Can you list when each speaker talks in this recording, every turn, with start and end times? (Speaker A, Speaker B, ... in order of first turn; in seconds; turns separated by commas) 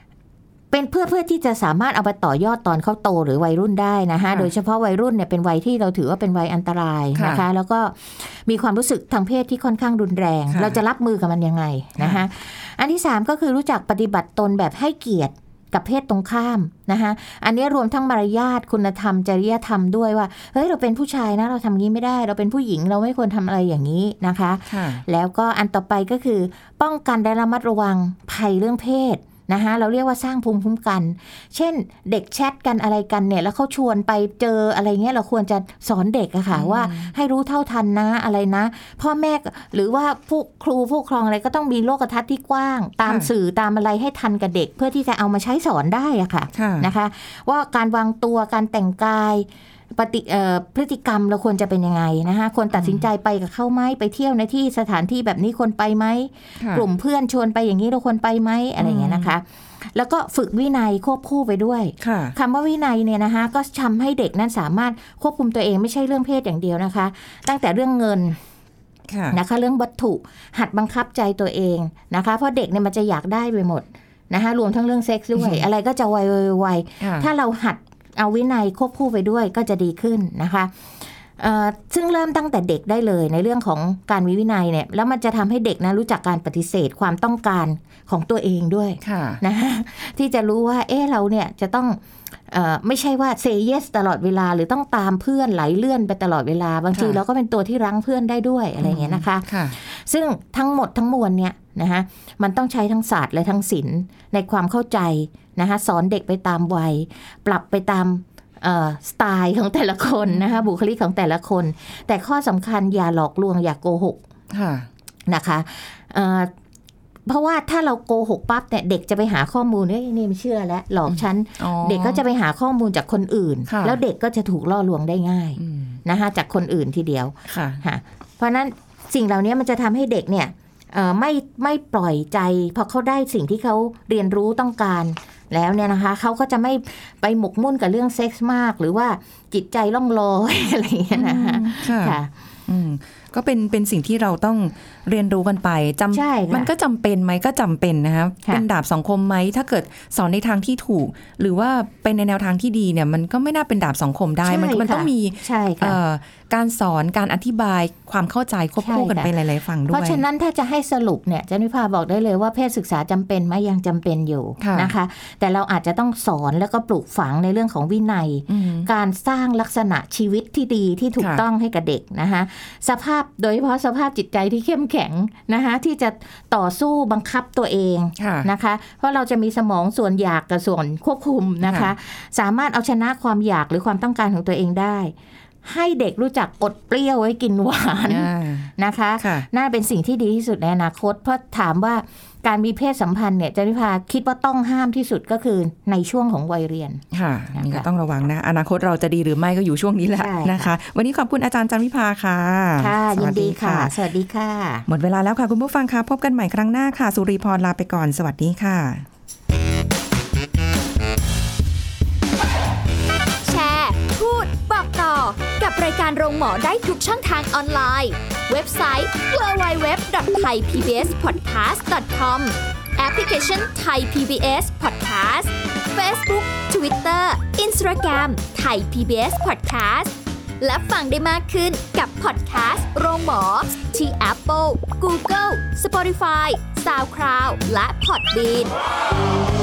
Speaker A: 0.7-68.4, Speaker B: 7.2-7.4, Speaker B: 10.5-10.8, Speaker B: 12.0-12.2, Speaker B: 24.7-25.0, Speaker B: 36.5-37.1, Speaker B: 43.0-43.3, Speaker B: 46.5-46.9, Speaker B: 52.7-53.0, Speaker B: 56.6-56.9, Speaker B: 58.8-59.3, Speaker B: 62.0-62.4, Speaker B: 69.1-69.4, Speaker A: 69.3-114.2, Speaker B: 75.4-75.6, Speaker B: 77.0-77.3, Speaker B: 89.0-89.4, Speaker B: 96.9-97.2, Speaker B: 98.8-99.8, Speaker B: 114.5-114.9, Speaker A: 115.3-116.5, Speaker A: 117.3-142.3, Speaker B: 121.1-122.2, Speaker B: 123.7-124.0, Speaker B: 125.6-126.0, Speaker B: 127.5-127.8, Speaker B: 141.1-160.2, Speaker A: 146.1-146.7, Speaker A: 154.4-156.0, Speaker A: 158.8-159.3, Speaker A: 159.9-197.0, Speaker B: 164.6-164.9, Speaker B: 168.5-168.9, Speaker B: 171.2-171.4, Speaker B: 178.2-178.5, Speaker B: 181.6-181.9, Speaker B: 188.1-189.5, Speaker B: 197.1-203.9, Speaker A: 197.6-197.9, Speaker A: 200.2-200.7, Speaker A: 202.8-204.8, Speaker B: 204.9-209.1, Speaker C: 213.4-238.7